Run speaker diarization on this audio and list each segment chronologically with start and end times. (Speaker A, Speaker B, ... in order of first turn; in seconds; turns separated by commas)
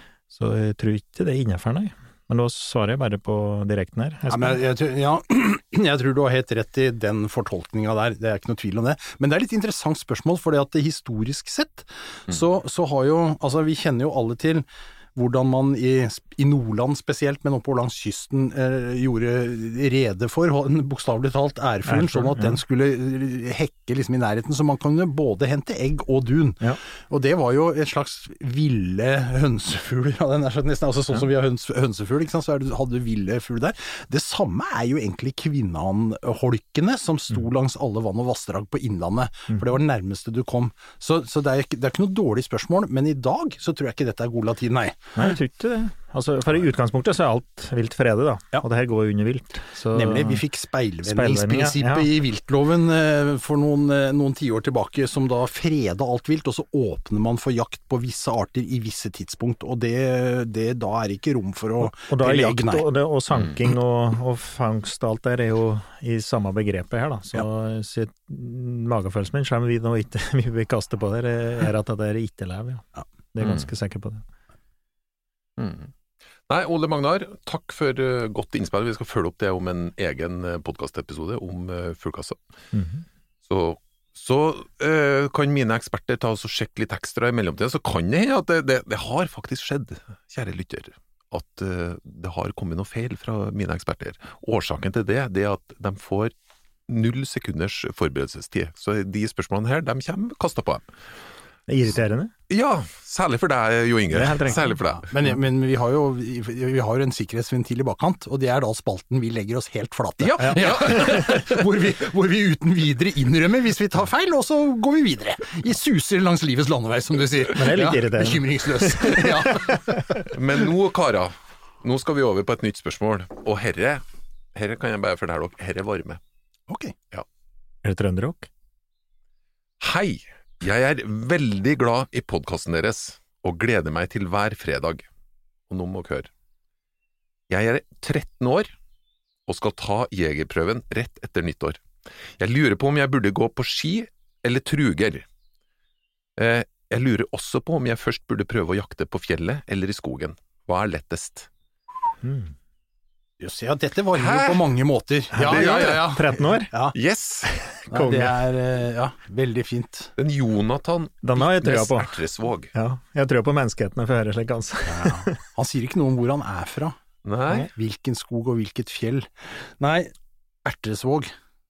Speaker A: 0.3-4.6, Speaker B: 4.3-45.3, Speaker A: 21.9-22.6, Speaker A: 45.1-50.4, Speaker B: 49.9-62.8, Speaker A: 51.0-52.1, Speaker A: 61.8-74.2, Speaker C: 73.4-73.7, Speaker C: 75.6-75.9, Speaker C: 76.5-82.4, Speaker A: 82.7-83.0, Speaker C: 83.5-96.3, Speaker C: 96.9-100.8, Speaker A: 101.7-102.3, Speaker C: 102.5-105.1, Speaker A: 104.1-104.8, Speaker B: 105.1-120.2, Speaker C: 110.2-111.6, Speaker A: 110.6-111.2, Speaker A: 117.5-120.3, Speaker C: 120.3-124.0, Speaker C: 124.5-126.2, Speaker B: 126.7-126.9, Speaker A: 127.8-128.5, Speaker C: 129.8-135.1, Speaker C: 135.7-136.3, Speaker C: 137.5-138.7, Speaker C: 139.5-141.8, Speaker C: 142.4-145.2, Speaker C: 146.4-151.5, Speaker A: 152.2-152.5, Speaker B: 153.4-156.9, Speaker C: 154.1-154.6, Speaker A: 155.3-156.7, Speaker C: 155.4-156.2, Speaker C: 156.9-157.5, Speaker A: 157.5-158.3, Speaker B: 157.9-160.1, Speaker C: 160.2-162.7, Speaker A: 161.2-162.2, Speaker A: 162.7-165.4, Speaker B: 164.8-167.0, Speaker C: 167.2-167.7, Speaker B: 167.7-170.1, Speaker B: 170.6-171.3